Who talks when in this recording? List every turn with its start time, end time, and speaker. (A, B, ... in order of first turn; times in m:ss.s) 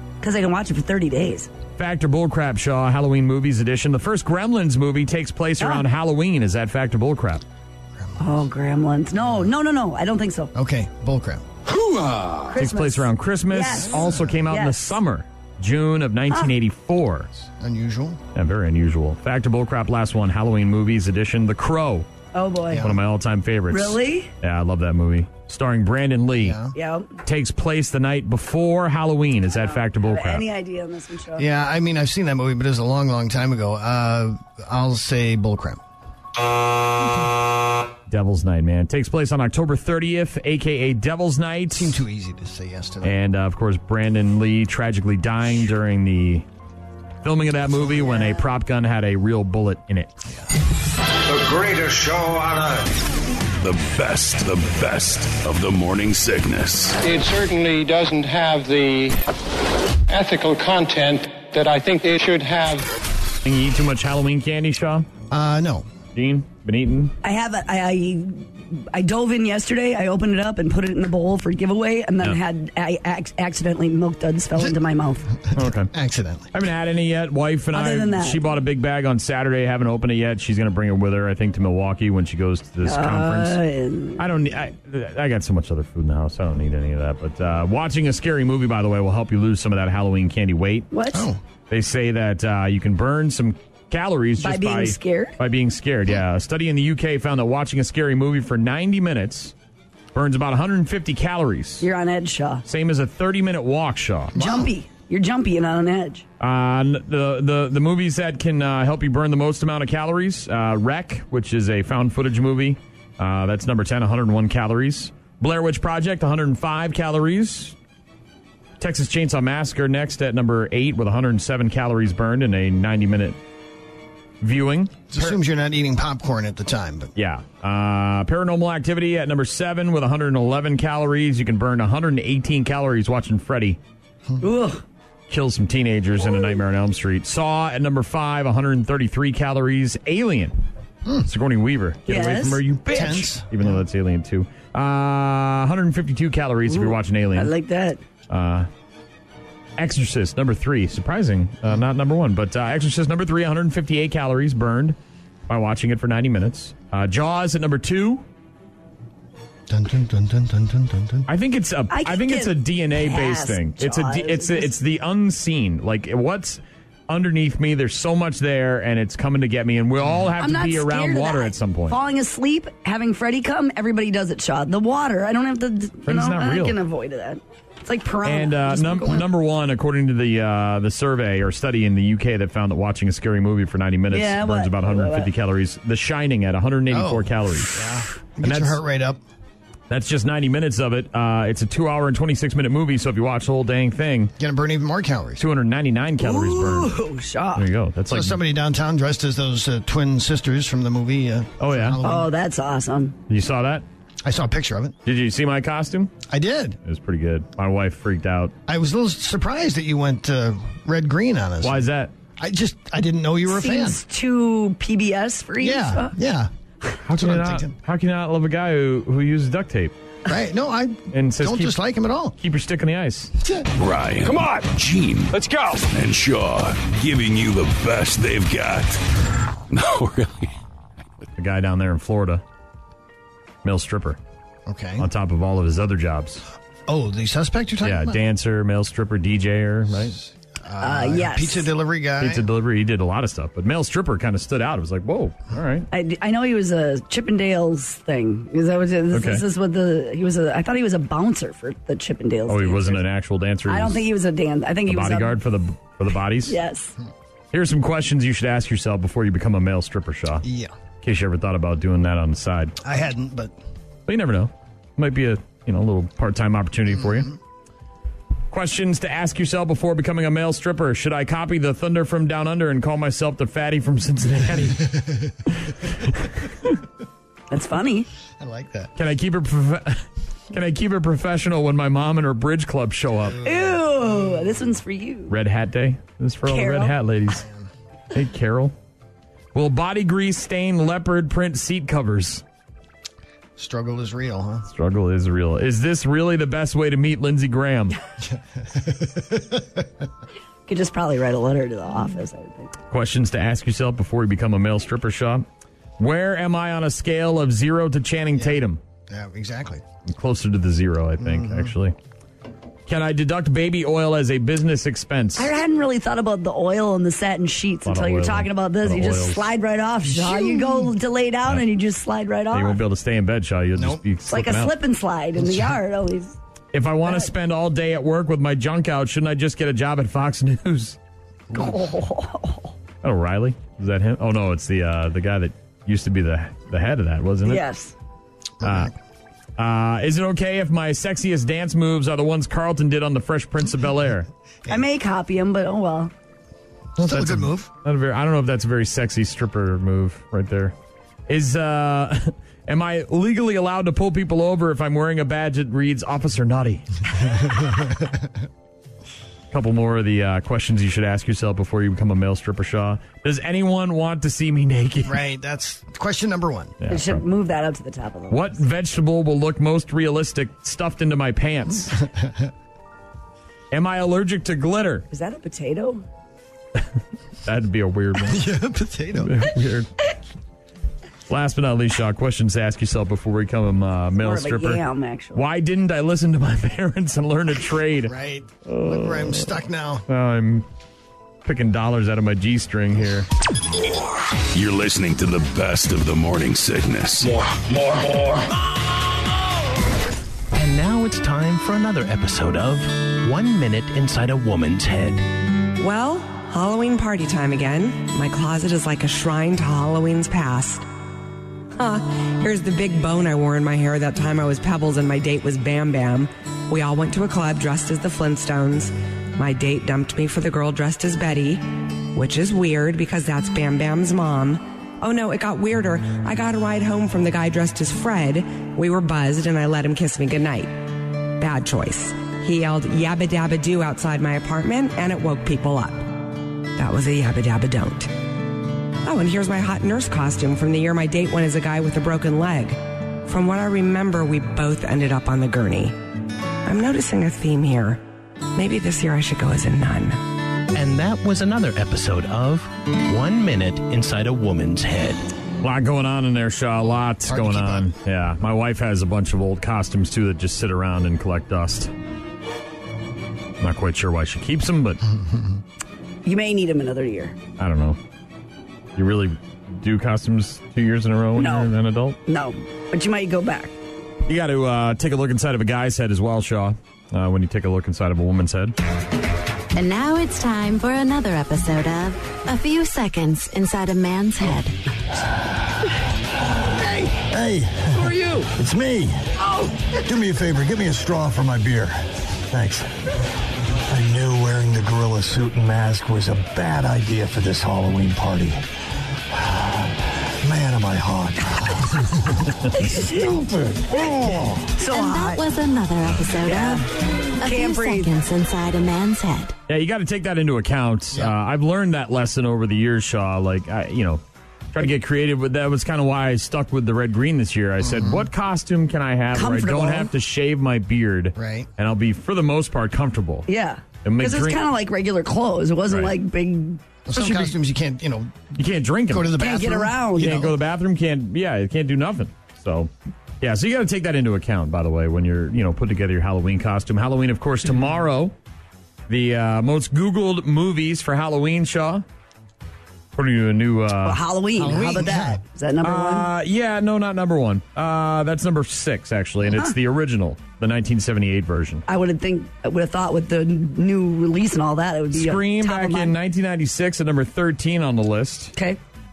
0:00.2-0:01.5 A
0:01.8-0:07.4 B
0:08.0-0:08.4 C
0:08.2-0:10.5 A
0:10.5-0:11.4 C
0:12.5-0:15.0 A
0:12.6-0:17.3 B
0:13.8-0:14.4 C
0:17.6-0:18.2 C
0:18.4-0:22.1 B
0:22.3-0:22.9 A
0:22.7-0:23.0 C
0:22.8-0:26.6 B
0:23.7-0:24.3 A
0:26.4-0:26.8 C
0:26.8-0:27.1 A
0:27.2-0:30.4 B
0:29.5-0:31.5 A
0:31.4-0:35.8 C
0:38.1-0:42.0 B
0:41.7-0:43.2 C
0:43.0-0:46.5 B
0:47.2-0:50.1 B
0:51.2-0:52.9 D
0:53.6-0:57.0 E
0:57.0-0:59.2 F
1:00.1-1:02.9 F
1:03.4-1:05.1 B
1:05.3-1:05.9 C
1:06.1-1:07.2 B
1:07.2-1:15.3 A
1:15.5-1:15.9 B
1:15.9-1:16.5 C
1:16.5-1:23.6 B
1:17.7-1:18.4 A
1:22.8-1:24.2 A
1:24.2-1:30.9 B
1:30.9-1:31.3 A
1:31.1-1:31.4 C
1:31.7-1:39.5 B
1:34.4-1:35.4 A
1:40.1-1:41.9 B
1:41.8-1:42.6 A
1:42.6-1:44.4 B
1:44.3-1:44.7 C
1:44.4-1:46.2 A
1:46.4-1:57.8 B
1:58.8-2:03.4 B
2:04.4-2:05.4 B
2:05.1-2:07.1 C
2:07.2-2:13.8 B
2:14.4-2:14.8 A
2:15.3-2:20.6 B
2:21.2-2:27.5 B
2:22.1-2:22.6 A
2:22.9-2:23.8 C
2:26.7-2:28.0 A
2:28.3-2:28.7 B
2:29.8-2:35.0 B
2:35.5-2:38.2 B
2:39.7-2:41.3 C
2:41.3-2:52.0 B
2:41.9-2:44.7 A
2:50.4-2:59.3 A
2:56.1-2:56.8 B
2:58.2-3:07.8 B
3:04.1-3:05.3 A
3:06.9-3:09.2 C
3:08.4-3:08.8 B
3:09.9-3:14.3 B
3:14.4-3:15.4 C
3:15.4-3:17.0 B
3:16.2-3:17.7 A
3:17.6-3:18.4 B
3:18.1-3:22.3 C
3:21.6-3:22.0 B
3:22.0-3:23.2 A
3:23.3-3:23.8 B
3:24.2-3:25.0 C
3:25.1-3:26.1 B
3:26.3-3:26.8 C
3:26.8-3:28.5 B
3:28.7-3:34.0 C
3:31.6-3:32.1 B
3:33.5-3:36.1 A
3:35.6-3:36.5 C
3:37.1-3:39.9 B
3:37.1-3:37.7 C
3:40.3-3:42.4 C
3:41.1-3:41.8 B
3:42.4-3:43.3 B
3:43.8-3:49.0 E
3:49.7-3:50.5 E
3:51.4-3:52.4 B
3:53.6-3:54.2 B
3:54.7-3:55.1 C
3:55.0-3:56.4 B
3:56.9-3:58.2 C
3:57.8-4:00.2 B
4:00.6-4:02.5 C
4:00.8-4:01.7 A
4:02.2-4:05.9 B
4:05.9-4:13.0 A
4:09.1-4:09.4 B
4:12.5-4:14.0 B
4:13.7-4:15.4 A
4:14.9-4:16.6 B
4:16.5-4:17.0 A
4:17.5-4:20.4 B
4:20.4-4:20.7 C
4:21.0-4:22.8 B
4:22.8-4:23.5 C
4:24.1-4:27.3 B
4:27.0-4:27.3 C
4:28.5-4:35.0 B
4:34.8-4:35.3 C
4:35.6-4:36.3 B
4:37.5-4:38.1 A
4:38.4-4:38.9 C
4:39.0-4:43.4 B
4:43.2-4:44.5 C
4:43.4-4:45.3 A
4:45.3-4:47.5 B
4:46.5-4:47.0 A
4:47.3-4:47.7 C
4:48.1-4:48.7 B
4:49.5-4:52.4 B
4:53.6-4:54.7 C
4:54.7-4:58.0 B
4:58.3-4:59.8 C
5:00.7-5:02.7 A
5:02.9-5:05.5 B
5:06.0-5:08.8 B
5:08.4-5:09.8 C
5:10.1-5:12.0 B
5:11.2-5:11.7 C
5:12.9-5:15.5 B
5:15.4-5:22.8 A
5:17.8-5:19.4 B
5:20.2-5:20.8 C
5:22.5-5:24.8 B
5:23.8-5:24.0 C
5:24.3-5:26.4 A
5:25.4-5:25.7 C
5:26.7-5:31.0 B
5:27.0-5:27.3 A
5:31.5-5:32.7 A
5:33.0-5:37.6 B
5:37.4-5:37.9 A
5:38.6-5:38.9 C
5:38.6-5:38.9 B
5:39.6-5:44.3 B
5:44.7-5:46.1 A
5:47.0-5:47.7 C
5:47.0-5:50.7 B
5:51.3-5:56.9 B
5:57.5-5:58.2 C
5:59.5-6:05.2 B
6:05.0-6:06.8 C
6:06.8-6:07.2 B
6:06.9-6:08.6 A
6:08.3-6:12.0 B
6:12.0-6:12.5 C
6:13.7-6:15.1 B
6:15.1-6:16.0 A
6:17.4-6:18.5 B
6:18.2-6:19.5 C
6:19.1-6:19.9 B
6:21.3-6:24.8 B
6:24.2-6:25.4 A
6:25.3-6:30.7 B
6:28.1-6:30.0 C
6:31.4-6:33.3 B
6:34.5-6:37.3 E
6:37.2-6:38.5 D
6:40.5-6:45.3 G
6:45.8-6:50.9 H
6:51.7-7:10.8 H
7:11.4-7:16.1 H
7:16.8-7:18.1 H
7:19.0-7:26.0 H
7:26.6-7:28.0 H
7:28.6-7:30.2 H
7:30.7-7:35.2 G
7:35.6-7:41.9 B
7:37.3-7:37.9 C
7:43.6-7:45.0 B
7:46.2-7:47.4 A
7:47.6-7:48.0 B
7:49.0-7:52.2 B
7:51.4-7:51.7 A
7:52.3-7:53.7 A
7:54.3-7:58.8 B
7:59.7-8:04.8 I
8:06.7-8:09.3 C
8:08.0-8:08.5 A
8:09.9-8:12.0 C
8:12.5-8:12.9 C
8:13.9-8:18.6 C
8:20.4-8:22.5 C
8:22.8-8:23.4 A
8:23.1-8:24.8 C
8:24.8-8:25.4 A
8:24.8-8:26.9 I
8:26.4-8:26.9 A
8:27.4-8:29.6 I
8:27.4-8:28.1 A
8:29.7-8:43.5 B
8:37.8-8:38.3 C
8:39.3-8:40.1 A
8:41.4-8:41.7 C
8:43.5-8:46.8 A
8:44.0-8:44.6 B
8:47.1-8:48.4 C
8:47.1-8:47.5 B
8:48.5-8:49.4 B
8:49.1-8:50.5 C
8:49.3-8:50.5 A
8:50.2-8:58.3 B
8:59.1-9:02.0 B
9:03.2-9:04.2 B
9:04.0-9:06.3 A
9:04.6-9:05.4 C
9:05.8-9:11.8 B
9:11.9-9:16.1 A
9:15.1-9:18.5 B